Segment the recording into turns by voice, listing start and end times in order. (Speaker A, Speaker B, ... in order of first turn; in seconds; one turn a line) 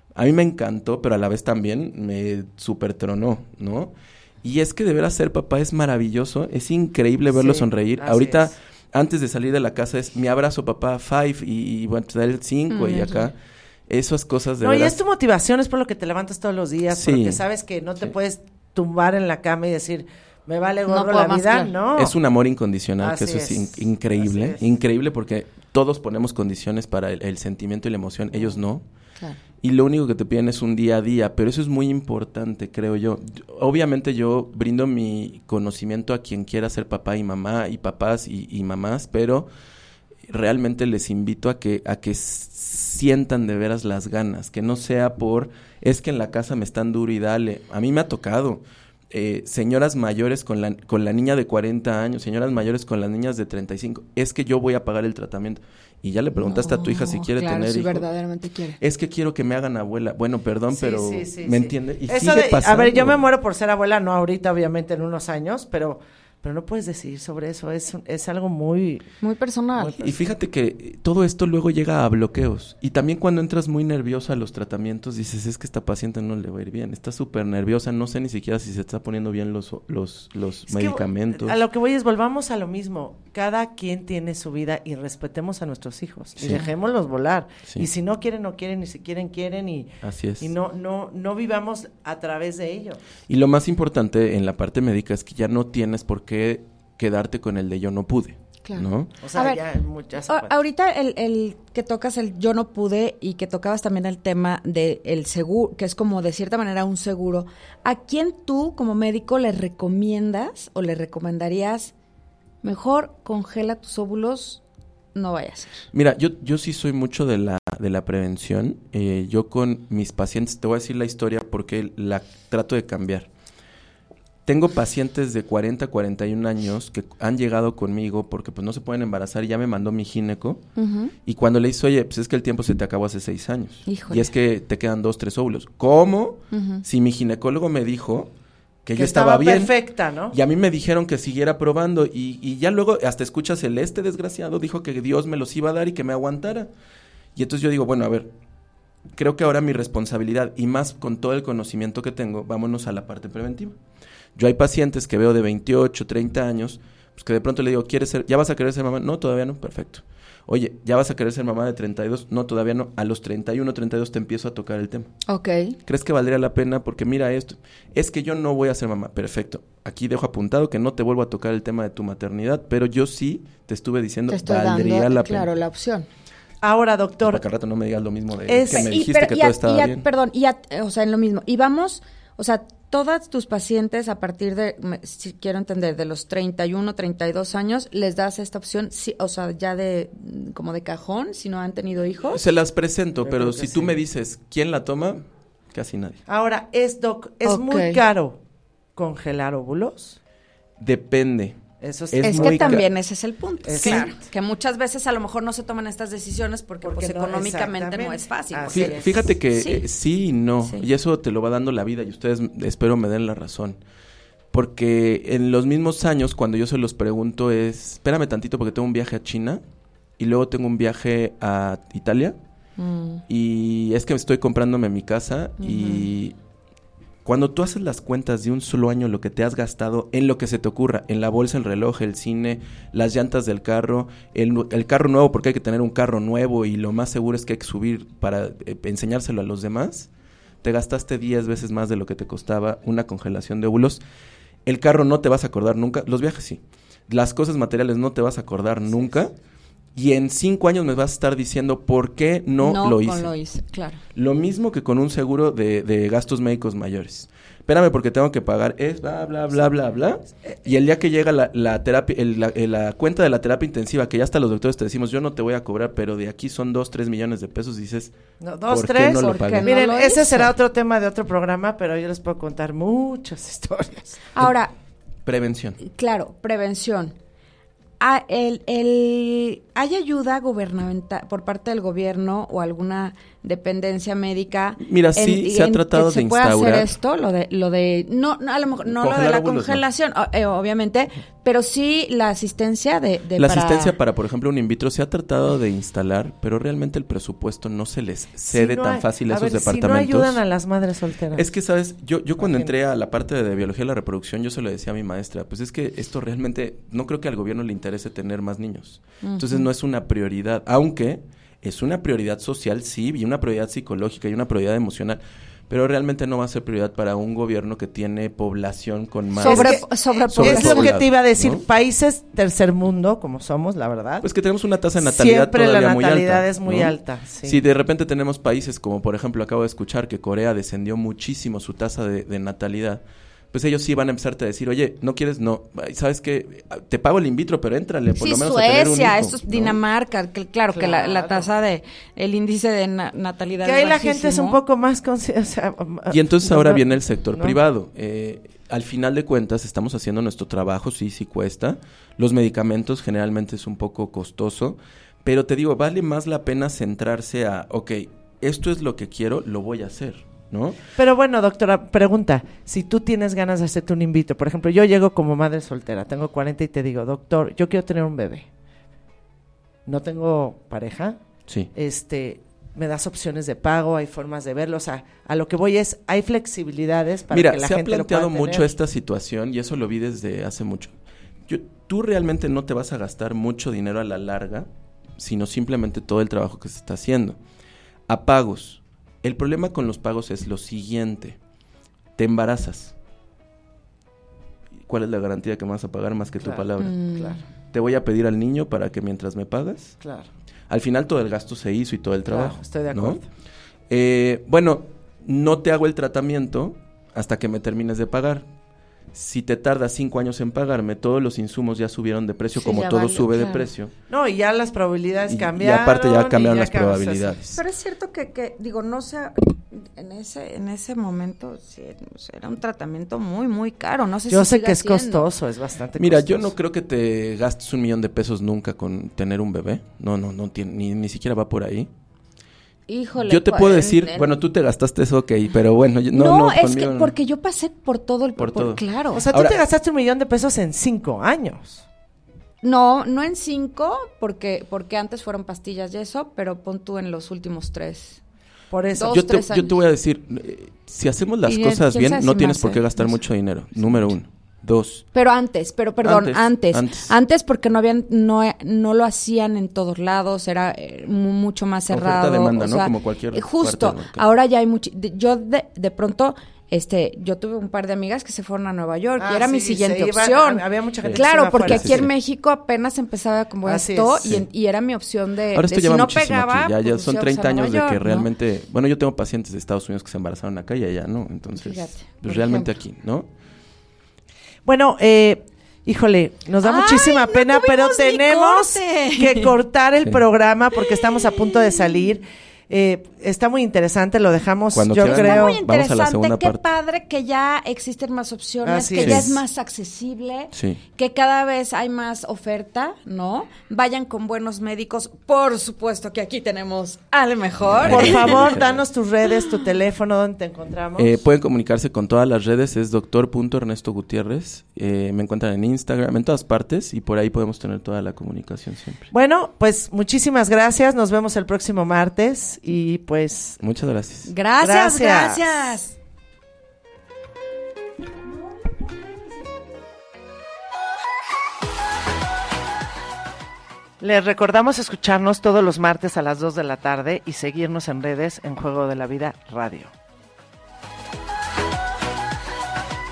Speaker A: 0.1-13.4
Speaker B: 7.3-8.5
Speaker C: 12.7-13.3
Speaker A: 13.9-15.0
Speaker B: 14.6-22.1
Speaker A: 16.9-17.4
Speaker C: 20.9-21.7
Speaker A: 21.9-28.9
Speaker B: 23.0-24.7
Speaker A: 29.6-39.5
Speaker A: 40.3-58.1
Speaker C: 56.4-58.8
Speaker A: 58.8-63.2
Speaker B: 60.7-69.0
Speaker C: 69.2-70.0
Speaker B: 69.8-70.2
Speaker A: 70.0-81.6
Speaker B: 80.7-93.0
Speaker A: 86.4-86.7
Speaker A: 90.0-90.5
Speaker A: 93.3-99.1
Speaker C: 98.7-99.6
Speaker B: 99.2-100.5
Speaker C: 100.3-111.9
Speaker C: 112.6-114.6
Speaker C: 115.2-115.9
Speaker A: 115.9-123.3
Speaker A: 124.5-130.6
Speaker C: 130.8-131.1
Speaker A: 131.2-138.3
Speaker C: 133.9-134.3
Speaker C: 136.5-136.8
Speaker A: 138.8-139.8
Speaker B: 139.0-140.3
Speaker A: 140.3-146.7
Speaker A: 147.3-148.3
Speaker A: 149.1-153.8
Speaker A: 154.4-165.1
Speaker C: 165.3-165.8
Speaker A: 165.8-175.5
Speaker C: 174.3-176.1
Speaker B: 176.6-177.4
Speaker A: 177.2-180.1
Speaker B: 178.5-178.9
Speaker C: 178.7-192.4
Speaker A: 192.3-196.2
Speaker B: 193.2-193.9
Speaker B: 196.3-198.4
Speaker C: 197.4-198.0
Speaker B: 198.9-200.2
Speaker A: 200.8-202.9
Speaker B: 201.8-202.9
Speaker C: 202.2-209.8
Speaker B: 203.6-204.2
Speaker A: 203.8-204.1
Speaker B: 206.8-209.3
Speaker A: 208.7-213.8
Speaker A: 214.5-219.6
Speaker A: 220.2-222.4
Speaker C: 222.8-223.2
Speaker A: 223.3-226.4
Speaker C: 225.6-226.1
Speaker A: 227.2-240.1
Speaker A: 240.6-244.0
Speaker A: 244.7-249.3
Speaker A: 249.9-253.3
Speaker C: 252.6-254.0
Speaker A: 254.1-268.1
Speaker B: 268.4-274.2
Speaker A: 268.7-269.8
Speaker C: 269.2-270.5
Speaker C: 274.3-274.7
Speaker A: 275.2-275.8
Speaker C: 275.8-277.1
Speaker C: 278.0-294.0
Speaker A: 284.8-286.9
Speaker A: 288.8-289.8
Speaker A: 293.4-300.4
Speaker B: 298.5-301.5
Speaker A: 301.3-321.6
Speaker B: 302.4-302.7
Speaker C: 309.2-309.7
Speaker C: 319.4-321.0
Speaker B: 319.4-324.3
Speaker A: 324.2-339.8
Speaker B: 325.0-327.6
Speaker C: 338.2-344.6
Speaker B: 340.7-341.5
Speaker B: 343.6-347.6
Speaker A: 346.1-360.8
Speaker B: 361.0-368.5
Speaker B: 369.9-371.2
Speaker B: 371.7-378.8
Speaker A: 377.3-380.9
Speaker A: 381.5-387.4
Speaker A: 388.1-391.4
Speaker A: 392.2-392.9
Speaker A: 394.9-397.0
Speaker B: 396.4-397.4
Speaker C: 396.8-397.4
Speaker A: 397.6-400.0
Speaker B: 400.0-400.3
Speaker A: 400.7-403.2
Speaker B: 402.3-403.3
Speaker A: 403.9-408.5
Speaker A: 409.1-413.9
Speaker C: 412.6-413.7
Speaker B: 414.1-417.4
Speaker A: 415.3-417.6
Speaker C: 417.5-425.2
Speaker B: 424.3-426.5
Speaker A: 426.0-431.9
Speaker C: 432.9-434.3
Speaker A: 433.2-437.1
Speaker C: 436.1-439.2
Speaker A: 438.4-439.6
Speaker B: 439.1-441.9
Speaker C: 442.6-448.2
Speaker B: 448.7-449.2
Speaker C: 448.9-449.8
Speaker A: 449.0-455.1
Speaker C: 451.4-453.2
Speaker C: 453.8-454.1
Speaker C: 455.1-478.3
Speaker A: 456.0-457.1
Speaker A: 461.9-464.2
Speaker B: 469.2-472.1
Speaker A: 471.0-472.1
Speaker B: 473.6-474.4
Speaker A: 475.5-483.3
Speaker C: 481.5-482.8
Speaker B: 484.6-495.6
Speaker C: 486.6-489.5
Speaker C: 490.8-492.0
Speaker A: 494.7-496.6
Speaker C: 495.0-508.6
Speaker B: 498.6-499.3
Speaker A: 499.0-499.4
Speaker A: 500.5-500.8
Speaker A: 507.6-508.9
Speaker B: 507.8-511.2
Speaker A: 511.0-519.1
Speaker B: 519.1-523.6
Speaker A: 523.6-524.3
Speaker C: 524.3-526.0
Speaker B: 524.6-525.5
Speaker B: 534.0-539.9